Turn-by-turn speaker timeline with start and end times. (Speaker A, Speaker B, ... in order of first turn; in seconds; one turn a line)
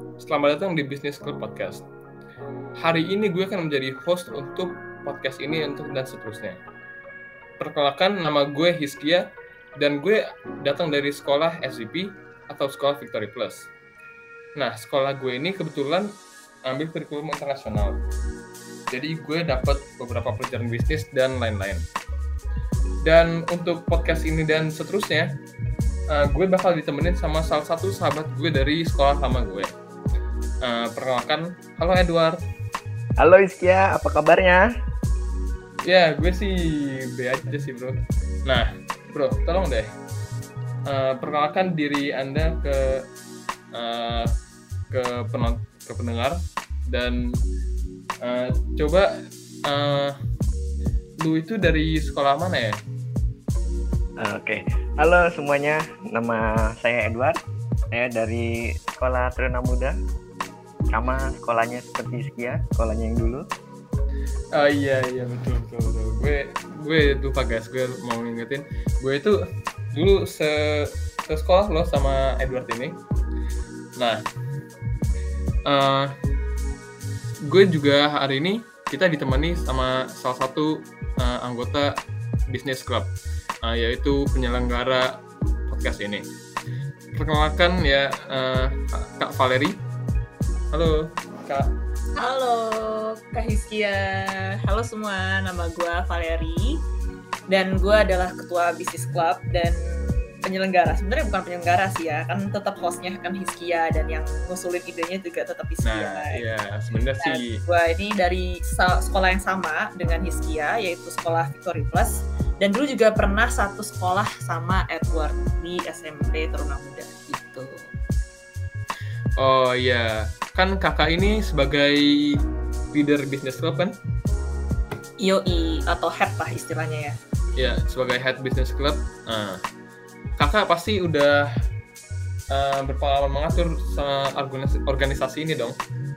Speaker A: 0.2-1.9
Speaker A: 2.8-6.6
Speaker A: 7.6-9.3
Speaker A: 9.8-13.7
Speaker A: 14.6-16.1
Speaker A: 16.7-18.0
Speaker A: 18.9-21.8
Speaker A: 23.0-25.3
Speaker A: 26.1-29.7
Speaker A: 30.6-32.4
Speaker B: 33.2-34.7
Speaker A: 35.9-39.9
Speaker A: 40.9-43.0
Speaker A: 43.7-44.3
Speaker A: 44.9-47.4
Speaker A: 48.2-49.1
Speaker A: 49.7-50.2
Speaker A: 51.2-52.8
Speaker B: 54.2-57.4
Speaker B: 57.9-60.0
Speaker B: 60.9-63.5
Speaker A: 64.5-69.4
Speaker A: 69.9-73.0
Speaker A: 75.7-76.1
Speaker A: 77.5-82.0
Speaker A: 82.5-83.1
Speaker A: 83.6-86.3
Speaker A: 87.1-89.8
Speaker A: 90.7-91.7
Speaker C: 92.2-96.8
Speaker C: 97.5-106.4
Speaker A: 105.8-107.6
Speaker C: 107.2-117.9
Speaker A: 119.4-122.4
Speaker A: 122.9-124.0
Speaker C: 125.2-127.2
Speaker A: 127.6-129.6
Speaker A: 130.4-131.5
Speaker A: 132.5-135.8